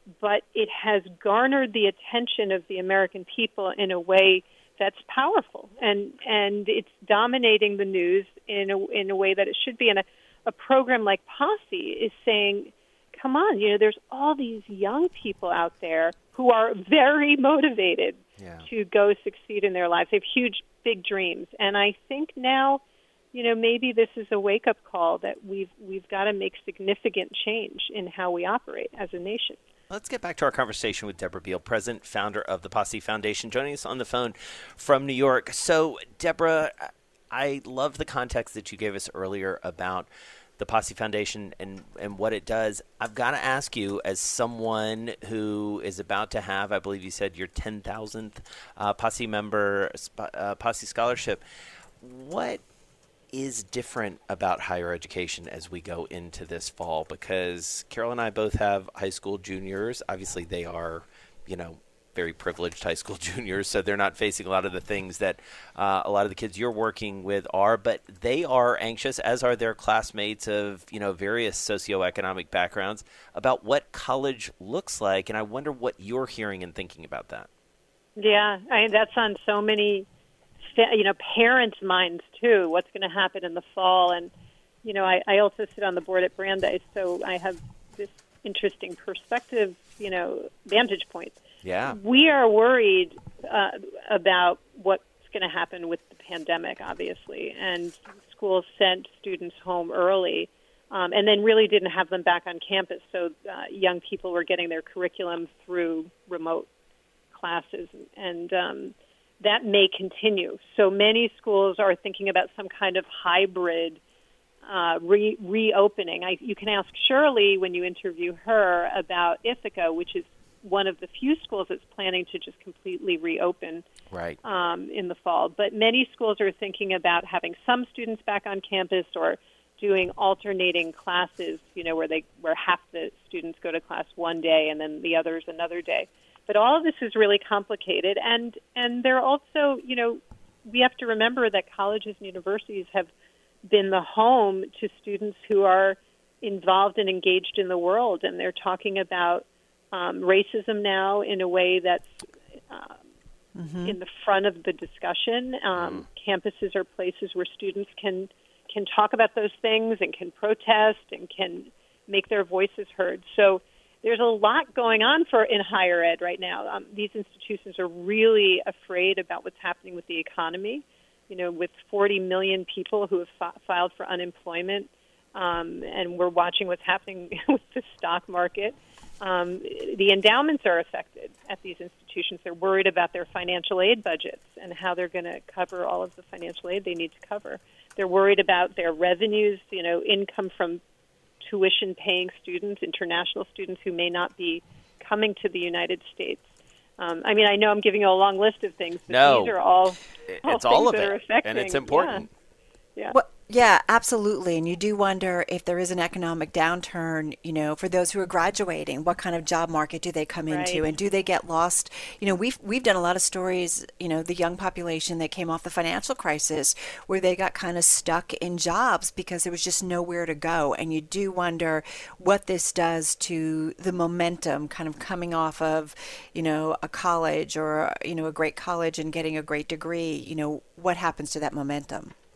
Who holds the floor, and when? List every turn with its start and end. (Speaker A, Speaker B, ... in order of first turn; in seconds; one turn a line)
Speaker A: 0.2-22.8
Speaker B: 18.4-18.7
Speaker A: 23.3-29.6
Speaker B: 29.9-51.4
Speaker B: 52.0-52.6
Speaker B: 53.3-77.5
Speaker A: 78.2-80.1
Speaker A: 80.7-84.3
Speaker A: 84.8-91.4
Speaker B: 91.6-92.0
Speaker A: 91.9-106.7
Speaker A: 107.3-114.0
Speaker A: 114.6-123.8
Speaker B: 124.1-124.4
Speaker A: 124.4-143.1
Speaker A: 143.6-153.0
Speaker C: 153.5-154.0
Speaker A: 153.8-190.8
Speaker B: 155.7-156.0
Speaker A: 191.4-202.2
Speaker B: 199.1-199.5
Speaker B: 200.3-202.3
Speaker C: 203.1-232.1
Speaker A: 210.5-210.8